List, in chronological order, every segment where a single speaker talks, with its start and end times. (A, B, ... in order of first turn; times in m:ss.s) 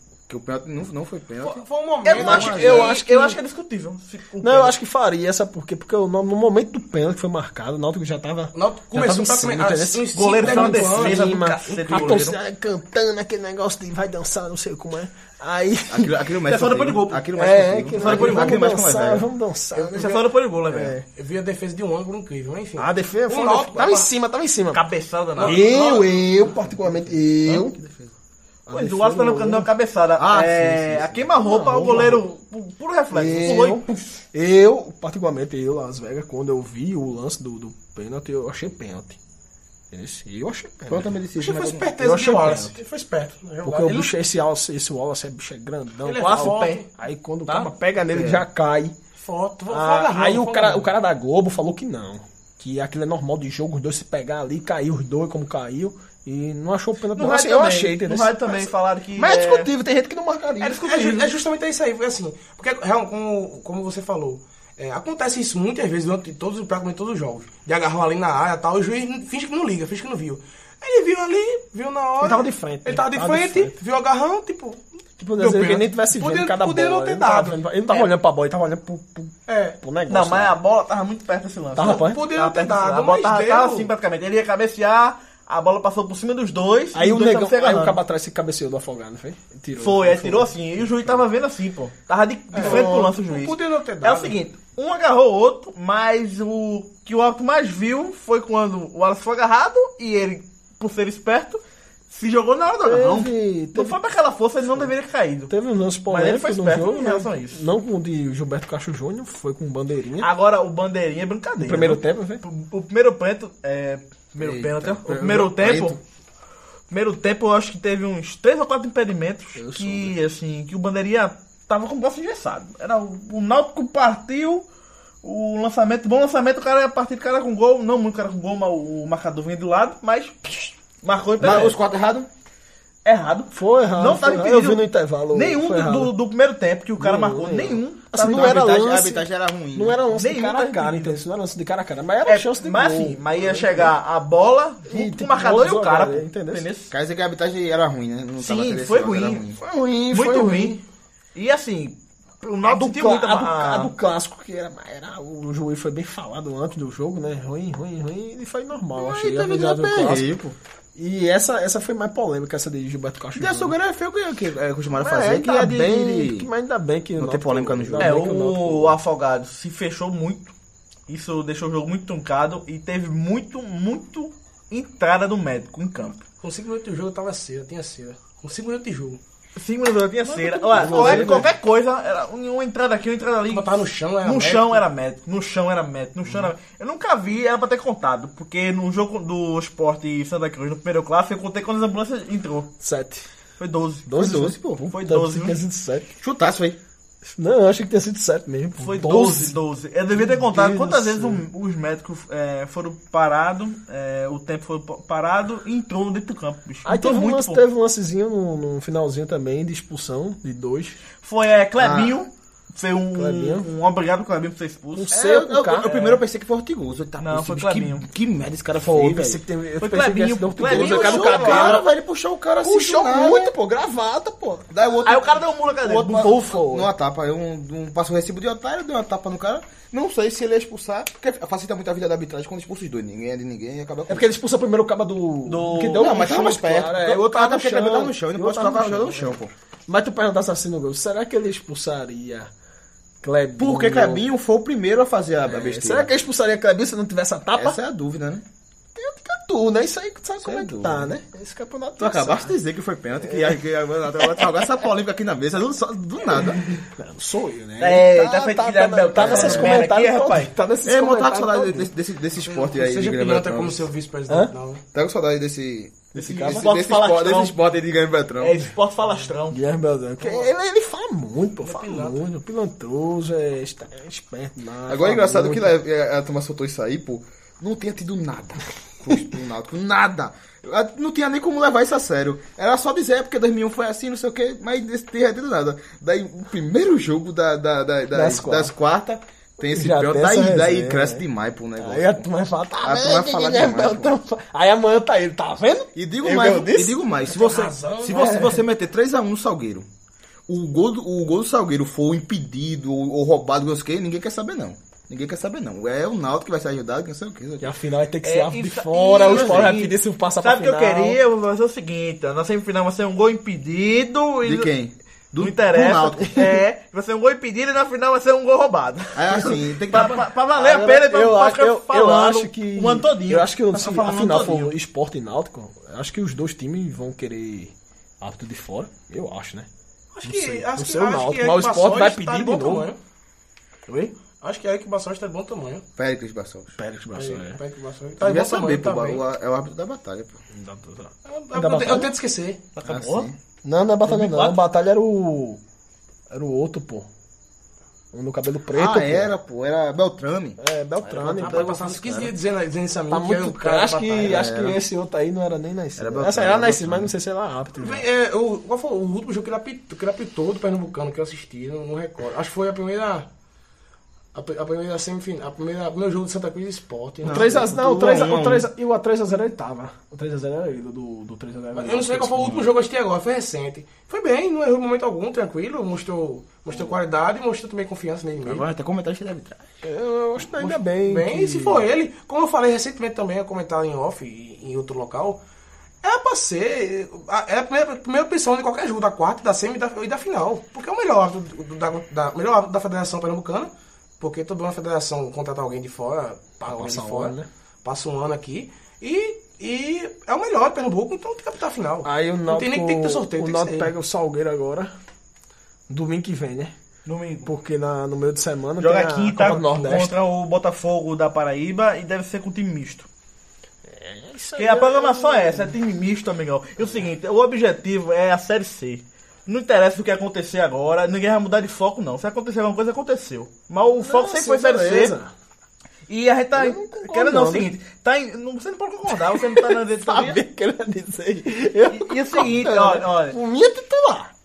0:00.3-0:02.9 A
0:01.4-0:02.9 B
0:02.0-0:04.8 C
0:02.2-0:03.4 D
0:04.4-0:16.2 D
0:08.5-0:12.2 B
0:10.1-0:12.4 C
0:15.9-0:19.3 A
0:16.4-0:18.6 C
0:17.4-0:20.2 D
0:19.8-0:20.2 B
0:19.9-0:21.0 C
0:20.7-0:21.0 D
0:21.1-0:24.1 B
0:22.8-0:24.8 D
0:24.7-0:25.9 C
0:25.4-0:26.2 B
0:25.4-0:27.8 D
0:27.4-0:28.1 A
0:28.7-0:29.7 D
0:28.7-0:34.0 C
0:30.2-0:31.3 A
0:31.4-0:32.2 D
0:33.1-0:39.2 D
0:39.9-0:41.2 D
0:40.9-0:42.0 A
0:41.4-0:44.2 B
0:42.0-0:42.8 D
0:43.6-0:49.0 D
0:46.0-0:46.9 B
0:46.2-0:46.8 C
0:48.1-0:48.4 A
0:49.2-0:50.9 B
0:49.7-1:01.0 D
0:57.1-0:59.7 C
1:00.6-1:14.8 B
1:00.7-1:01.3 C
1:12.2-1:13.8 D
1:15.2-1:20.6 D
1:15.4-1:18.1 B
1:19.5-1:19.8 B
1:20.1-1:28.0 C
1:21.8-1:22.3 D
1:21.8-1:23.9 B
1:26.9-1:31.2 D
1:29.7-1:45.5 C
1:32.5-1:34.4 B
1:32.6-1:33.0 D
1:42.8-1:44.0 D
1:45.5-1:50.3 D
1:46.1-1:47.6 C
1:50.2-1:56.0 C
1:51.6-1:52.4 D
1:54.4-1:56.0 A
1:56.9-2:04.6 C
1:59.6-2:00.2 D
2:05.2-2:11.8 C
2:11.4-2:12.3 A
2:13.0-2:18.8 C
2:13.5-2:16.1 D
2:17.0-2:23.9 D
2:18.3-2:20.0 A
2:20.1-2:21.2 C
2:22.2-2:26.9 C
2:24.9-2:26.7 D
2:26.9-2:29.6 A
2:28.4-2:29.4 C
2:29.6-2:30.8 D
2:30.1-2:30.8 C
2:31.4-2:33.9 C
2:32.6-2:40.3 D
2:39.0-2:40.6 A
2:41.0-2:43.8 D
2:43.4-2:46.5 A
2:45.0-2:49.0 D
2:47.2-2:48.2 A
2:48.0-2:50.5 C
2:51.1-2:56.2 C
2:56.4-2:59.2 B
2:59.6-3:12.7 C
3:00.2-3:01.5 D
3:00.7-3:01.5 A
3:03.5-3:04.8 B
3:12.8-3:13.3 D
3:13.6-3:14.3 C
3:14.1-3:16.1 D
3:14.2-3:14.8 A
3:14.9-3:15.6 C
3:16.2-3:16.8 A
3:17.3-3:19.6 D
3:18.8-3:27.6 C
3:20.1-3:21.4 D
3:26.8-3:31.0 D
3:31.2-3:35.2 C
3:31.8-3:32.2 A
3:33.2-3:33.7 D
3:35.0-3:35.9 D
3:35.1-3:39.4 A
3:35.8-3:36.2 C
3:37.2-3:38.1 C
3:38.9-3:41.8 D
3:39.8-3:41.8 C
3:40.6-3:43.5 A
3:42.6-3:44.7 D
3:44.7-3:54.3 A
3:45.0-3:46.8 C
3:46.3-3:46.8 D
3:54.1-3:59.4 D
3:55.5-3:56.4 C
3:55.9-3:59.5 A
3:59.9-4:02.5 D
4:03.2-4:04.3 D
4:03.6-4:06.1 A
4:05.4-4:07.8 D
4:07.6-4:08.4 A
4:09.0-4:12.6 D
4:10.4-4:11.1 A
4:12.0-4:16.7 A
4:13.3-4:13.5 D
4:16.9-4:21.9 D
4:17.8-4:20.5 C
4:19.1-4:19.8 A
4:20.8-4:23.9 A
4:22.4-4:24.8 B
4:24.9-4:28.7 A
4:26.1-4:26.7 D
4:26.2-4:27.6 C
4:28.4-4:29.6 C
4:29.5-4:35.8 D
4:30.2-4:30.5 B
4:31.6-4:32.2 B
4:34.9-4:52.3 A
4:48.1-4:48.7 D
4:49.7-4:51.2 D
4:51.8-4:57.0 D
4:52.8-4:54.1 A
4:56.0-4:59.9 A
4:57.2-4:58.5 B
4:58.1-4:58.6 D
5:00.5-5:07.7 A
5:07.6-5:11.2 D
5:08.2-5:14.7 C
5:09.2-5:09.8 A
5:14.4-5:16.6 A
5:15.4-5:24.7 C
5:19.2-5:20.2 A
5:19.9-5:29.7 D
5:30.1-5:33.0 B
5:30.2-5:32.9 D
5:33.9-5:34.1 C
5:34.4-5:35.8 B
5:36.0-5:36.8 A
5:36.8-5:37.6 D
5:37.2-5:39.2 B
5:38.2-5:40.4 A
5:40.5-5:42.2 D
5:41.3-5:42.6 B
5:42.8-5:43.3 C
5:42.8-5:43.4 A
5:43.6-5:45.6 D
5:44.1-5:44.6 C
5:46.3-5:47.1 D
5:48.1-5:49.3 D
5:48.7-5:50.6 A
5:50.6-5:52.1 D
5:51.1-5:54.4 B
5:51.4-5:52.3 A
5:53.1-5:58.0 D
5:54.2-5:54.8 A
5:56.0-5:57.1 A
5:57.8-6:03.3 B
6:04.3-6:07.7 B
6:07.2-6:08.7 A
6:07.2-6:12.6 D
6:11.8-6:18.6 B
6:12.4-6:12.7 A
6:18.4-6:19.6 A
6:19.8-6:21.8 D
6:20.5-6:25.4 B
6:26.0-6:43.9 B
6:36.7-6:37.5 D
6:42.0-6:44.9 D
6:45.9-6:46.8 D
6:47.1-6:47.5 C
6:47.4-6:50.1 D
6:48.8-6:53.1 C
6:53.9-6:55.8 D
6:54.6-7:05.2 C
7:04.0-7:05.3 D
7:06.1-7:10.4 C
7:06.6-7:07.7 D
7:09.1-7:14.3 D
7:11.9-7:13.4 C